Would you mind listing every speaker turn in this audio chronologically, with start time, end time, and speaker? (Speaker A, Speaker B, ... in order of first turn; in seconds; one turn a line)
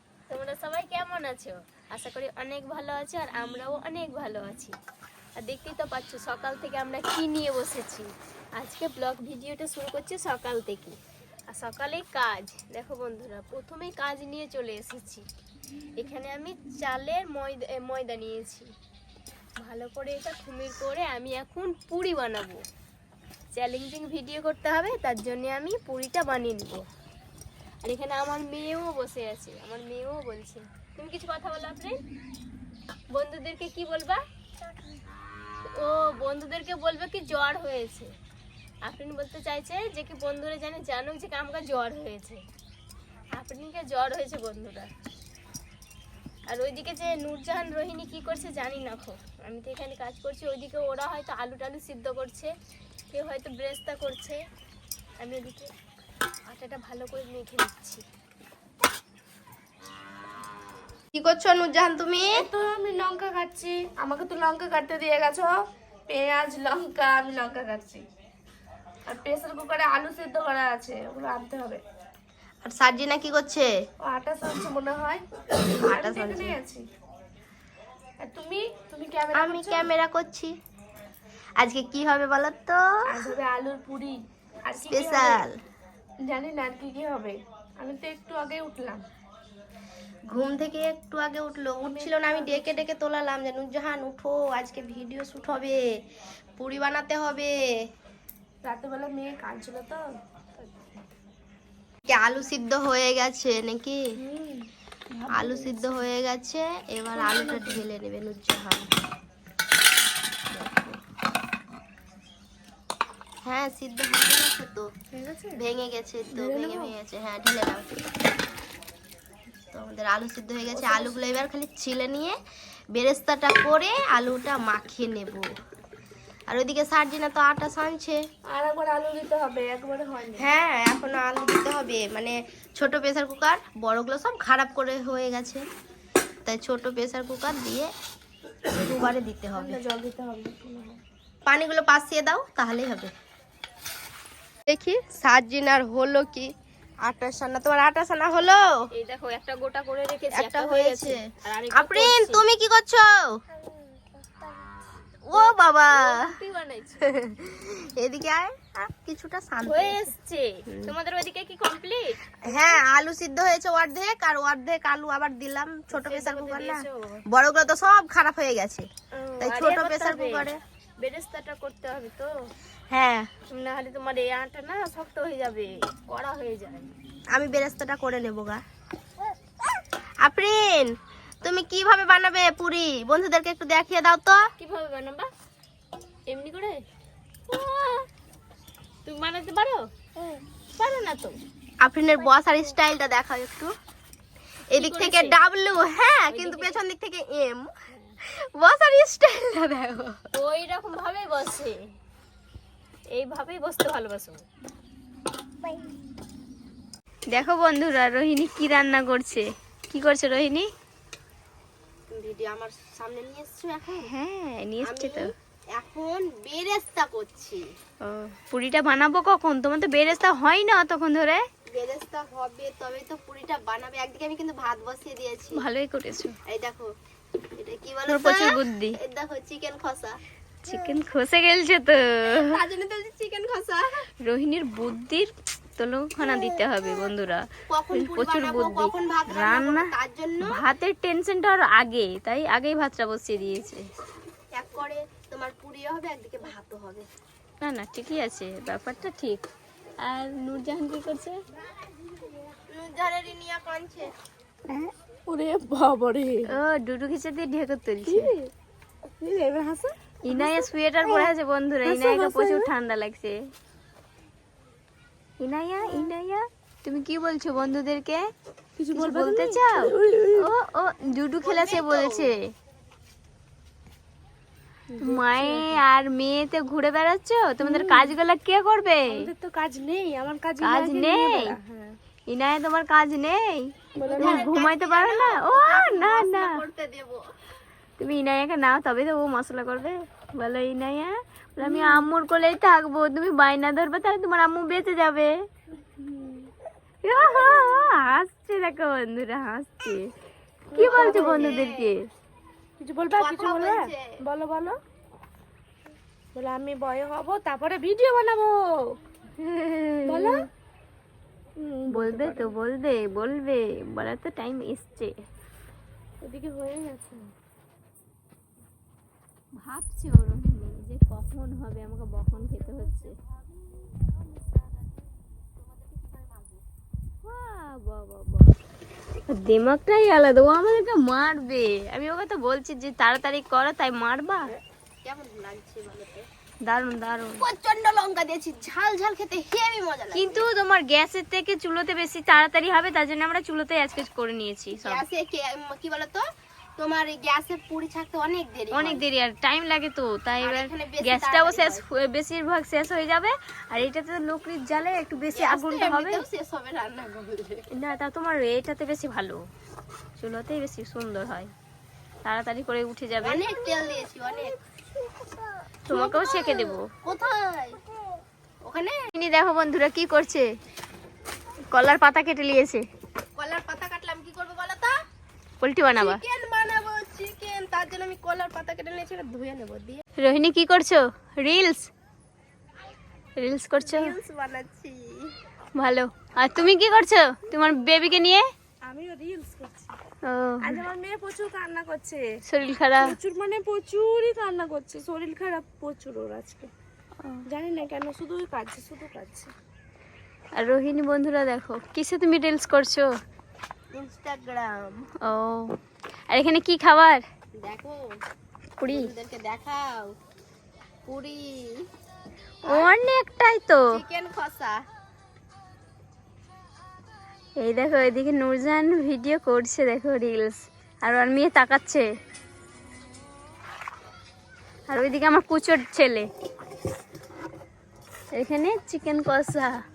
Speaker A: 0.3-4.7
Speaker A: 5.3-15.2
Speaker A: 16.0-18.7
Speaker A: 19.6-22.6
Speaker A: 23.5-26.9
Speaker A: 27.8-32.0
Speaker A: 33.1-34.2
Speaker A: 35.7-38.1
Speaker A: 38.8-42.4
Speaker A: 43.3-44.9
Speaker A: 46.5-52.5
Speaker A: 53.1-54.4
Speaker A: 55.2-55.7
Speaker A: 56.4-58.0
Speaker B: 61.1-62.4
Speaker C: 62.3-65.5
Speaker C: 66.1-68.0
Speaker C: 69.1-71.8
Speaker B: 72.6-73.7
Speaker C: 74.0-76.8
Speaker B: 75.8-76.6
Speaker C: 78.2-79.9
Speaker B: 79.3-80.5
Speaker B: 81.6-83.3
Speaker C: 83.1-85.4
Speaker B: 84.8-85.5
Speaker C: 86.2-89.0
Speaker B: 90.3-95.8
Speaker C: 91.8-92.8
Speaker B: 96.6-97.5
Speaker C: 98.6-100.0
Speaker B: 102.1-104.0
Speaker C: 104.2-105.8
Speaker B: 105.3-108.9
Speaker C: 107.1-107.8
Speaker C: 110.6-110.8
Speaker B: 113.5-114.8
Speaker C: 115.1-115.6
Speaker B: 115.5-117.9
Speaker C: 116.3-116.9
Speaker B: 119.7-122.3
Speaker C: 120.7-121.1
Speaker B: 122.9-125.5
Speaker B: 126.5-128.2
Speaker C: 128.5-130.5
Speaker B: 130.4-135.6
Speaker B: 136.4-137.9
Speaker B: 138.7-139.8
Speaker C: 139.5-141.0
Speaker B: 141.4-143.1
Speaker B: 144.7-146.5
Speaker B: 147.0-148.7
Speaker A: 148.9-152.4
Speaker B: 150.3-153.3
Speaker B: 155.3-156.2
Speaker A: 155.3-157.0
Speaker B: 157.0-160.0
Speaker A: 159.7-162.2
Speaker B: 162.4-168.9
Speaker A: 165.9-167.2
Speaker A: 169.2-170.5
Speaker B: 169.4-170.6
Speaker A: 171.0-172.3
Speaker B: 172.9-173.3
Speaker A: 173.5-176.9
Speaker B: 177.3-178.6
Speaker B: 180.2-184.4
Speaker A: 184.6-185.3
Speaker A: 186.3-186.8
Speaker A: 187.5-188.1
Speaker A: 189.1-189.9
Speaker A: 190.7-191.4
Speaker B: 191.8-193.7
Speaker B: 194.7-197.7
Speaker A: 194.8-195.3
Speaker A: 196.3-196.8
Speaker A: 197.9-198.2
Speaker B: 198.3-200.2
Speaker A: 200.3-201.8
Speaker A: 203.1-204.4
Speaker A: 207.3-210.7
Speaker B: 212.1-214.1
Speaker A: 214.0-215.3
Speaker B: 214.8-217.6
Speaker A: 218.0-221.4
Speaker B: 221.7-225.6
Speaker A: 225.5-226.3
Speaker B: 226.5-226.9
Speaker B: 227.6-230.2
Speaker A: 228.1-229.0
Speaker A: 230.6-232.5
Speaker B: 232.2-233.9
Speaker A: 234.2-239.9
Speaker B: 236.2-237.1
Speaker B: 237.7-240.5
Speaker A: 240.4-243.8
Speaker B: 244.5-247.1
Speaker A: 247.6-249.4
Speaker A: 250.0-251.4
Speaker B: 252.7-254.1
Speaker C: 254.7-256.5
Speaker A: 256.5-258.3
Speaker C: 258.0-258.5
Speaker C: 259.2-261.3
Speaker A: 260.2-263.4
Speaker C: 261.8-262.7
Speaker A: 265.4-268.3
Speaker C: 268.8-270.5
Speaker A: 268.9-272.5
Speaker B: 271.4-272.3
Speaker C: 274.9-275.8
Speaker A: 275.0-279.2
Speaker C: 277.6-278.1
Speaker C: 279.1-281.9
Speaker A: 280.6-281.6
Speaker A: 282.3-286.6
Speaker C: 283.9-284.5
Speaker B: 284.0-287.2
Speaker A: 288.0-295.3
Speaker C: 291.6-292.1
Speaker C: 296.0-296.5
Speaker A: 297.0-300.1
Speaker C: 300.7-301.5
Speaker A: 300.7-302.0
Speaker B: 300.8-301.9
Speaker C: 302.8-304.8
Speaker B: 303.1-304.1
Speaker C: 306.3-308.9
Speaker A: 309.4-310.4
Speaker C: 310.1-310.5
Speaker C: 311.6-312.5
Speaker A: 311.9-315.1
Speaker C: 316.2-317.2
Speaker A: 319.6-323.1
Speaker C: 322.5-325.6
Speaker B: 325.6-326.6
Speaker A: 327.2-328.5
Speaker A: 329.3-334.5
Speaker B: 335.0-336.2
Speaker A: 336.6-337.4
Speaker B: 337.4-340.5
Speaker A: 340.1-345.0
Speaker B: 344.8-346.2
Speaker B: 346.8-349.0
Speaker A: 348.7-356.2
Speaker B: 350.4-351.8
Speaker B: 355.3-357.6
Speaker A: 357.7-359.4
Speaker A: 360.2-361.5
Speaker A: 362.2-363.4
Speaker B: 363.2-364.5
Speaker C: 363.6-365.5
Speaker A: 365.9-366.9
Speaker B: 365.9-367.8
Speaker B: 368.6-368.9
Speaker A: 369.1-370.5
Speaker A: 371.7-372.8
Speaker B: 373.3-374.9
Speaker A: 375.6-376.2
Speaker B: 375.9-380.0
Speaker A: 380.2-381.9
Speaker A: 383.4-384.1
Speaker B: 383.8-385.3
Speaker A: 385.8-388.5
Speaker C: 388.8-390.0
Speaker A: 390.2-390.8
Speaker C: 390.6-392.2
Speaker A: 392.5-393.1
Speaker C: 393.0-396.7
Speaker C: 397.5-399.5
Speaker A: 400.6-403.1
Speaker B: 403.9-405.1
Speaker A: 405.2-405.7
Speaker A: 406.3-407.2
Speaker B: 407.6-408.0
Speaker A: 408.8-409.1
Speaker B: 408.9-410.1
Speaker B: 411.1-411.5
Speaker A: 412.7-413.9
Speaker B: 413.9-414.8
Speaker A: 417.6-422.1
Speaker A: 424.9-426.3
Speaker A: 428.3-429.8